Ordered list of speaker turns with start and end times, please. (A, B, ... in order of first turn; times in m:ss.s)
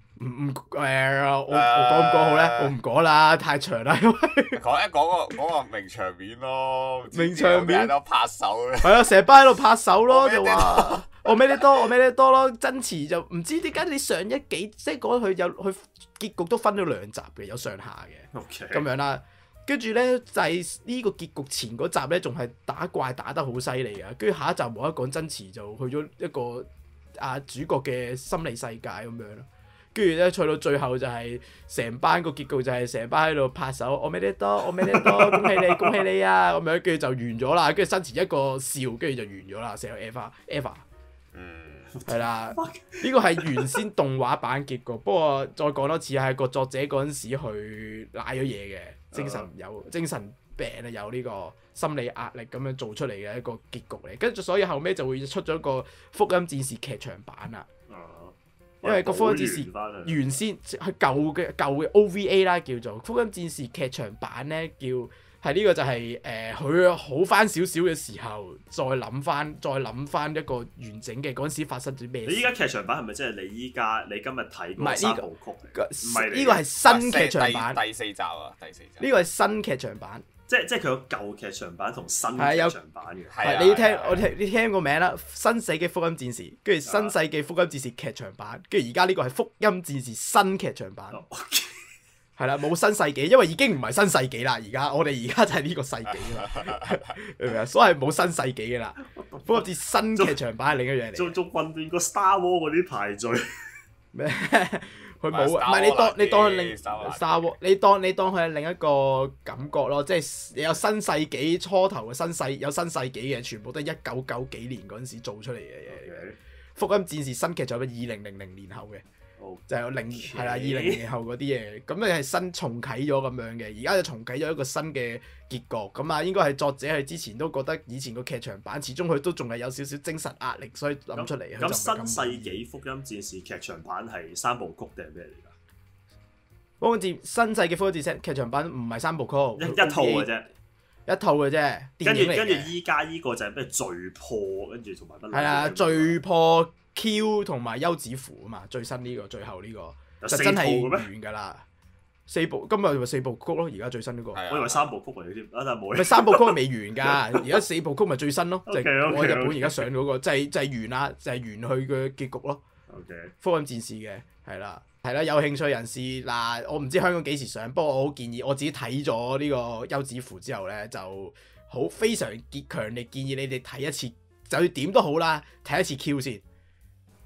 0:00.2-0:04.6 A
0:01.5-0:02.7 B
0:04.5-0:09.0 B
0:07.1-0:07.9 A
0:08.8-0:40.8 A
0:10.1-0:11.6 B
0:18.3-0:18.8 C
0:34.8-0:36.0 C
0:41.3-0:41.9 B
0:42.0-0:43.8 C
0:42.1-0:57.7 A
0:49.1-0:49.5 C
0:57.9-1:00.3 C
0:58.8-1:12.5 A
1:12.2-1:16.6 C
1:14.8-1:17.8 A
1:16.8-1:19.1 B
1:19.0-1:20.2 A
1:20.5-1:23.4 C
1:22.4-1:22.7 A
1:23.3-1:24.3 B
1:23.4-1:31.2 A
1:26.8-1:27.1 C
1:31.1-1:31.8 C
1:32.4-1:41.4 A
1:36.3-1:37.0 B
1:39.3-1:39.6 C
1:41.1-1:43.4 C
1:44.1-1:56.2 A
1:45.3-1:47.5 B
1:55.9-1:56.4 C
1:56.8-1:59.0 A
1:59.4-2:01.0 C
1:59.7-2:12.6 A
2:11.1-2:15.5 C
2:16.8-2:20.3 A
2:19.6-2:20.5 C
2:21.1-2:22.7 A
2:22.0-2:26.2 C
2:25.3-2:31.6 A
2:30.2-2:31.1 C
2:32.3-2:34.4 A
2:34.3-2:34.9 B
2:34.5-2:37.6 C
2:35.9-2:42.6 A
2:38.7-2:39.8 C
2:42.9-2:43.3 C
2:43.4-2:56.4 A